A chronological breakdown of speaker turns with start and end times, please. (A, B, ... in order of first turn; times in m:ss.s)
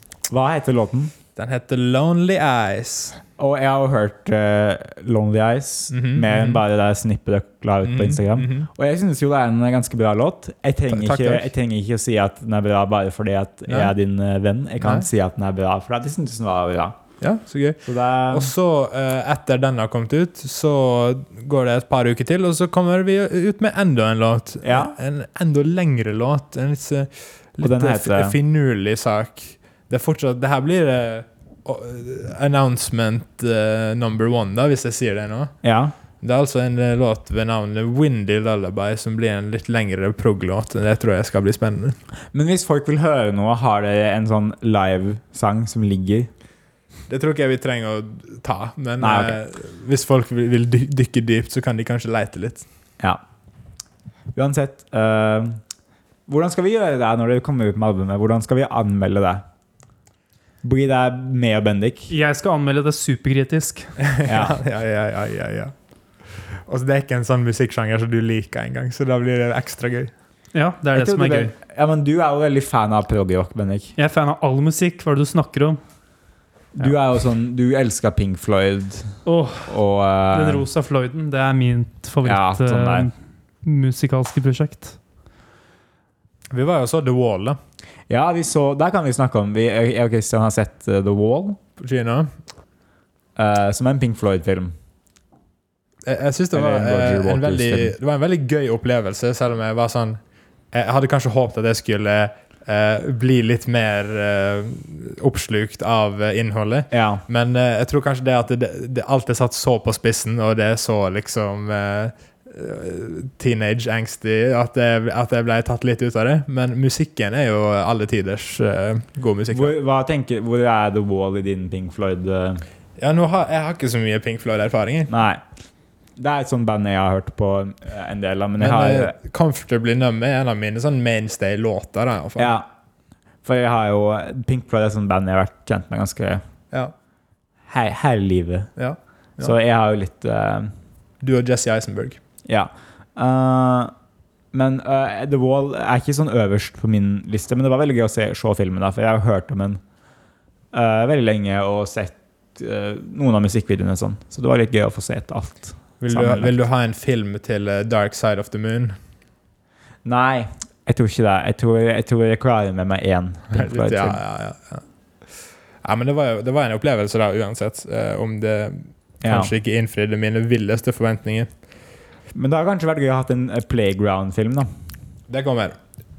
0:00.3-0:01.1 A
0:01.4-0:03.2 B
0:03.4-0:17.0 A
0:05.9-0:06.6 B
0:07.8-0:08.7 B
0:10.9-0:11.5 B
0:13.7-0:13.9 B
0:14.8-0:15.1 B
0:17.2-0:35.5 B
0:17.8-0:18.5 A
0:24.6-0:24.9 A
0:27.6-0:28.4 A
0:35.6-0:35.9 A
0:36.2-0:42.0 B
0:42.3-0:46.3 A
0:47.1-0:52.6 B
0:49.0-0:49.4 A
0:54.3-0:55.6 A
0:56.3-0:59.4 A
1:00.6-1:02.1 A
1:02.1-1:03.9 C
1:04.0-1:05.7 B
1:04.2-1:04.6 A
1:06.4-1:10.1 B
1:10.5-1:11.5 C
1:10.9-1:13.9 A
1:14.0-1:15.8 C
1:16.7-1:20.6 A
1:19.2-1:19.8 C
1:20.3-1:23.1 C
1:22.2-1:23.1 A
1:23.6-1:25.0 C
1:26.5-1:27.6 B
1:28.1-1:31.6 A
1:31.8-1:32.3 B
1:33.4-1:34.7 A
1:36.0-1:40.2 B
1:36.5-1:37.9 A
1:40.7-1:59.7 B
1:46.9-1:47.2 A
1:59.5-2:02.6 A
2:03.0-2:05.1 B
2:05.1-2:05.4 A
2:06.2-2:09.2 A
2:08.6-2:12.5 B
2:12.4-2:12.7 A
2:13.4-2:16.4 A
2:17.7-2:18.7 A
2:18.8-2:19.5 B
2:19.4-2:20.7 A
2:21.2-2:22.2 B
2:22.5-2:23.9 A
2:24.5-2:29.8 A
2:30.7-2:36.6 A
2:36.0-2:39.0 B
2:40.0-2:44.2 A
2:43.5-2:44.8 B
2:45.8-2:51.5 B
2:49.2-2:49.5 A
2:52.3-2:54.7 A
2:55.3-2:55.8 B